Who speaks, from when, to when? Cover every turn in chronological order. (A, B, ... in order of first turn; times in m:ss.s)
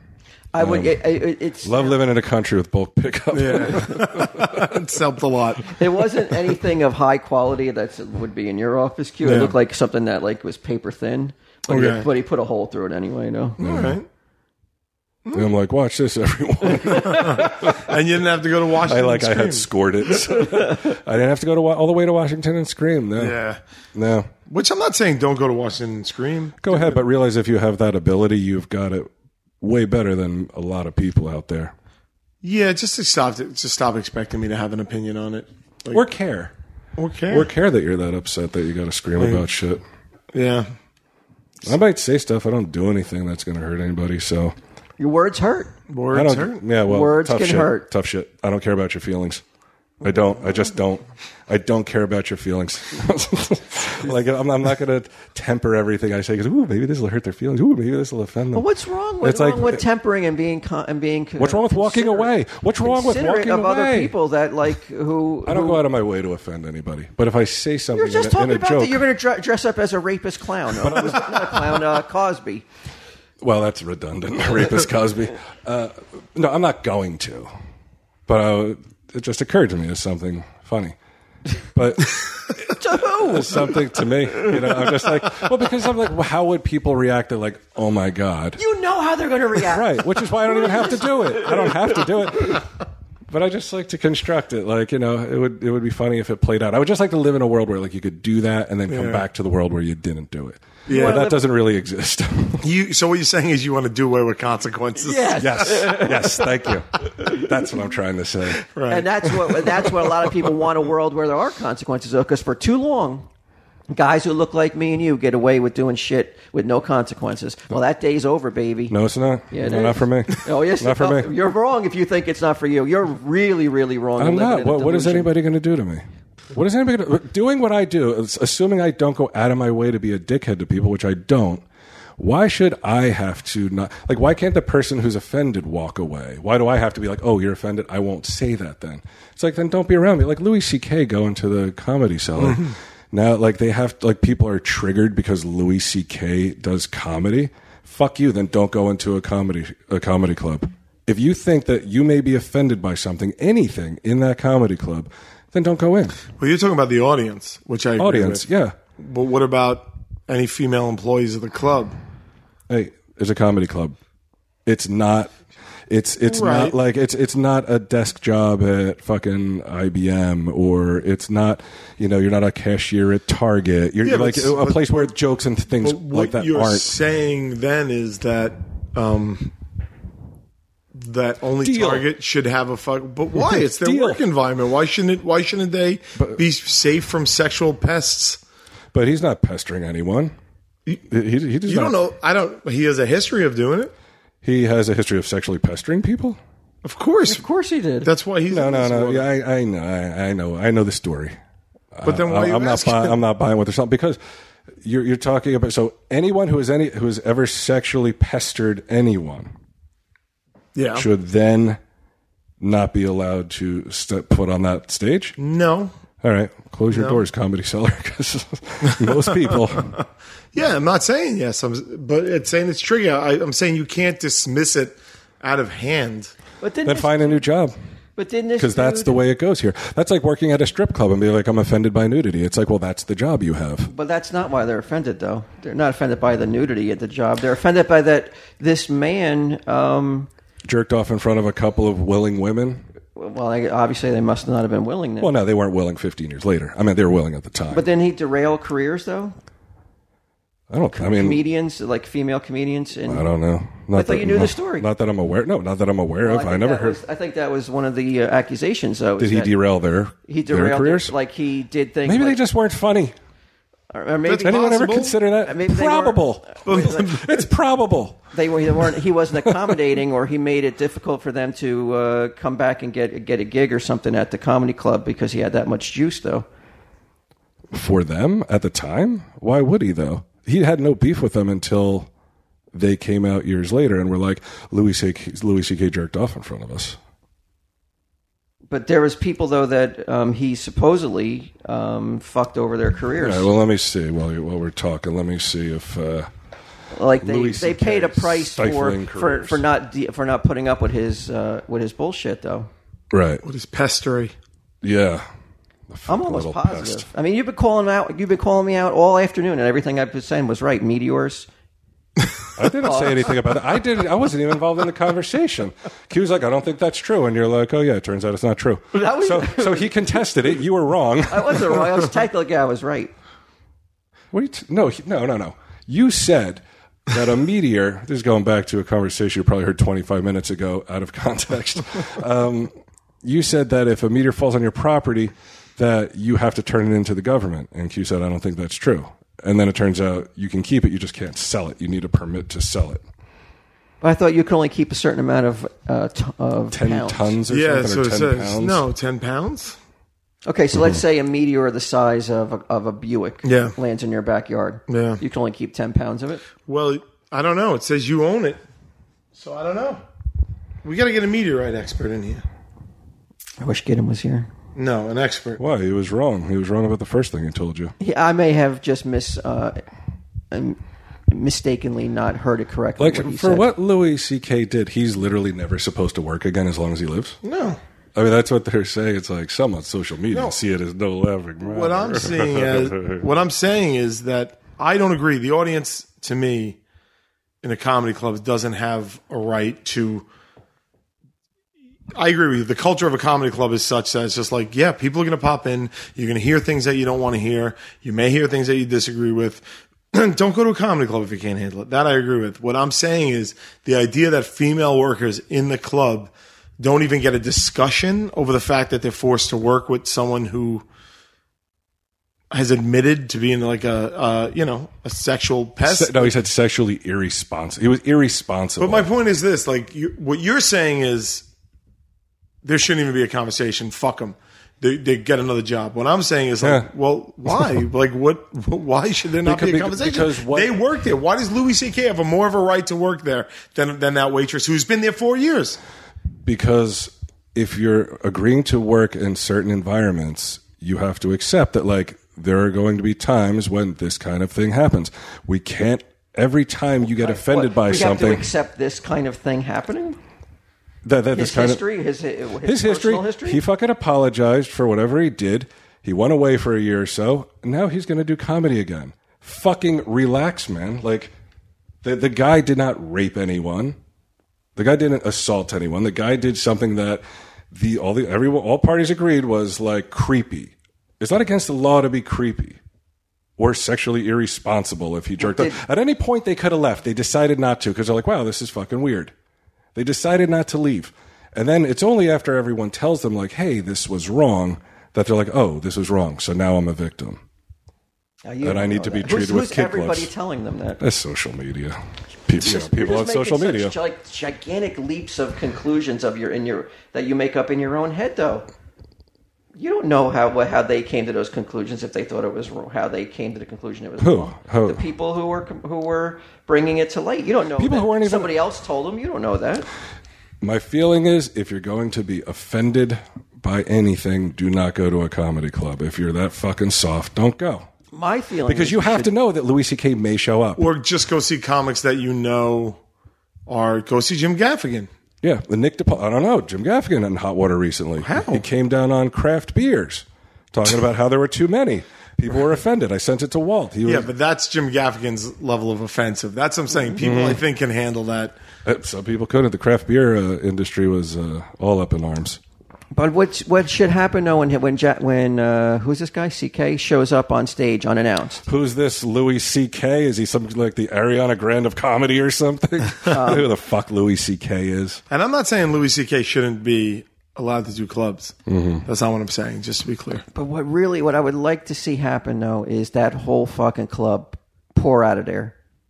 0:00.5-0:02.0 A
0:00.6-0:01.0 B
0:01.6-0:04.8 B
0:03.3-0:05.7 C
0:05.7-0:13.6 A
0:09.2-0:09.6 C
0:11.7-0:12.1 C
0:13.6-0:14.1 C
0:13.6-0:14.0 B
0:15.3-0:17.9 B
0:17.0-0:19.7 C
0:18.8-0:23.4 B
0:23.2-0:23.6 C
0:24.0-0:24.3 B
0:24.5-0:27.0 C
0:26.6-0:29.1 B
0:29.6-0:31.7 B
0:32.4-0:36.0 C
0:35.9-0:36.5 B
0:37.0-0:37.5 C
0:37.3-0:39.8 B
0:39.2-0:39.4 C
0:40.3-0:40.7 C
0:41.6-0:44.6 B
0:45.0-0:45.7 A
0:45.9-0:46.6 C
0:46.1-0:49.4 B
0:46.8-0:47.9 A
0:50.0-0:58.7 B
0:58.5-1:05.8 A
0:59.2-0:59.8 B
1:01.4-1:04.1 B
1:05.4-1:09.0 B
1:07.9-1:12.6 A
1:10.8-1:11.7 B
1:13.4-1:17.5 B
1:18.3-1:21.0 B
1:21.7-1:28.6 B
1:22.7-1:23.7 A
1:28.6-1:32.0 A
1:29.6-1:32.7 B
1:33.3-1:42.6 B
1:38.9-1:39.2 C
1:40.9-1:41.3 C
1:40.9-1:41.4 A
1:42.6-1:46.0 C
1:45.0-1:46.5 A
1:45.4-1:48.6 B
1:48.7-1:49.6 C
1:48.9-1:53.3 A
1:53.9-1:59.0 A
1:58.9-2:01.3 B
1:59.5-2:05.3 A
2:04.2-2:11.6 B
2:12.2-2:36.2 B
2:22.4-2:22.7 C
2:36.4-2:38.5 C
2:38.0-2:38.8 B
2:39.0-2:42.0 C
2:42.7-2:44.0 B
2:44.7-2:45.4 B
2:45.9-2:56.9 B
2:46.2-2:46.8 C
2:54.0-2:55.1 C
2:55.8-2:59.5 C
3:00.9-3:08.4 C
3:01.6-3:02.1 B
3:03.4-3:04.2 B
3:08.9-3:10.3 B
3:11.1-3:12.0 B
3:11.7-3:13.9 C
3:14.4-3:16.4 B
3:16.8-3:17.4 C
3:17.3-3:18.1 A
3:18.0-3:19.3 C
3:18.5-3:21.4 B
3:21.9-3:24.2 B
3:22.0-3:23.2 C
3:24.8-3:29.5 B
3:30.8-3:31.1 C
3:30.9-3:31.8 B
3:32.6-3:35.4 B
3:35.4-3:35.9 C
3:36.2-3:40.0 B
3:36.9-3:37.2 C
3:38.9-3:39.2 C
3:40.5-3:46.3 C
3:46.6-3:47.4 A
3:46.8-3:47.8 B
3:48.2-3:49.2 A
3:48.6-3:53.9 B
3:53.9-4:00.3 A
4:00.6-4:02.8 B
4:03.2-4:05.3 A
4:05.2-4:07.9 B
4:07.7-4:09.4 A
4:10.7-4:11.4 B
4:10.9-4:13.2 A
4:13.0-4:17.0 B
4:13.9-4:14.9 A
4:16.2-4:19.5 A
4:19.2-4:21.1 B
4:20.3-4:22.4 A
4:22.0-4:23.2 B
4:23.9-4:24.6 A
4:24.3-4:25.2 C
4:24.4-4:28.2 B
4:25.4-4:27.0 A
4:26.6-4:27.5 C
4:28.3-4:36.5 A
4:29.4-4:29.7 B
4:37.7-4:42.1 B
4:42.7-4:47.0 B
4:48.7-4:53.5 A
4:53.2-4:56.3 B
4:56.9-5:02.7 A
4:57.2-4:59.6 B
5:03.1-5:03.4 B
5:03.4-5:04.3 C
5:04.8-5:05.2 B
5:05.9-5:07.1 B
5:06.1-5:11.5 A
5:12.6-5:22.1 B
5:12.8-5:13.3 A
5:18.9-5:20.3 A
5:21.3-5:23.1 A
5:24.3-5:43.0 B
5:44.0-5:47.4 A
5:46.7-5:48.8 B
5:47.5-5:49.8 C
5:50.5-5:56.4 A
5:53.4-5:53.8 C
5:54.9-5:55.2 C
5:56.7-5:58.6 C
5:59.3-6:00.0 C
6:00.8-6:02.4 C
6:03.6-6:04.5 A
6:04.8-6:05.6 C
6:05.6-6:07.9 B
6:08.0-6:09.8 A
6:10.5-6:13.7 A
6:13.0-6:17.4 B
6:17.4-6:17.8 C
6:18.2-6:23.2 B
6:21.6-6:26.8 C
6:27.6-6:30.3 C
6:32.2-6:50.8 C
6:52.5-6:56.4 C
6:55.8-6:59.1 B
6:58.8-7:01.4 C
7:02.6-7:15.8 C
7:06.6-7:06.9 B
7:09.4-7:10.8 B
7:16.4-7:28.5 B
7:27.1-7:30.2 A
7:31.0-7:31.8 B
7:31.3-7:33.6 A
7:32.6-7:41.3 B
7:42.0-7:44.0 B
7:44.8-7:52.8 B
7:53.6-7:59.3 B
7:55.4-7:55.8 A
8:00.0-8:07.4 B
8:08.5-8:11.0 A
8:08.6-8:10.3 B
8:11.0-8:14.0 B
8:12.6-8:18.7 A
8:19.8-8:29.9 A
8:24.2-8:25.0 B
8:27.8-8:28.6 B
8:30.6-8:37.9 B
8:38.1-8:39.3 A
8:38.7-8:40.9 B
8:40.8-8:43.0 C
8:43.7-8:45.1 C
8:45.4-8:54.3 B
8:48.2-8:48.6 C
8:54.1-8:58.6 C
8:57.2-8:57.6 B
8:58.8-9:02.6 B
9:03.1-9:08.6 A
9:08.7-9:15.2 B
9:13.3-9:13.7 A
9:15.3-9:20.4 C
9:18.7-9:19.1 B
9:20.5-9:25.8 A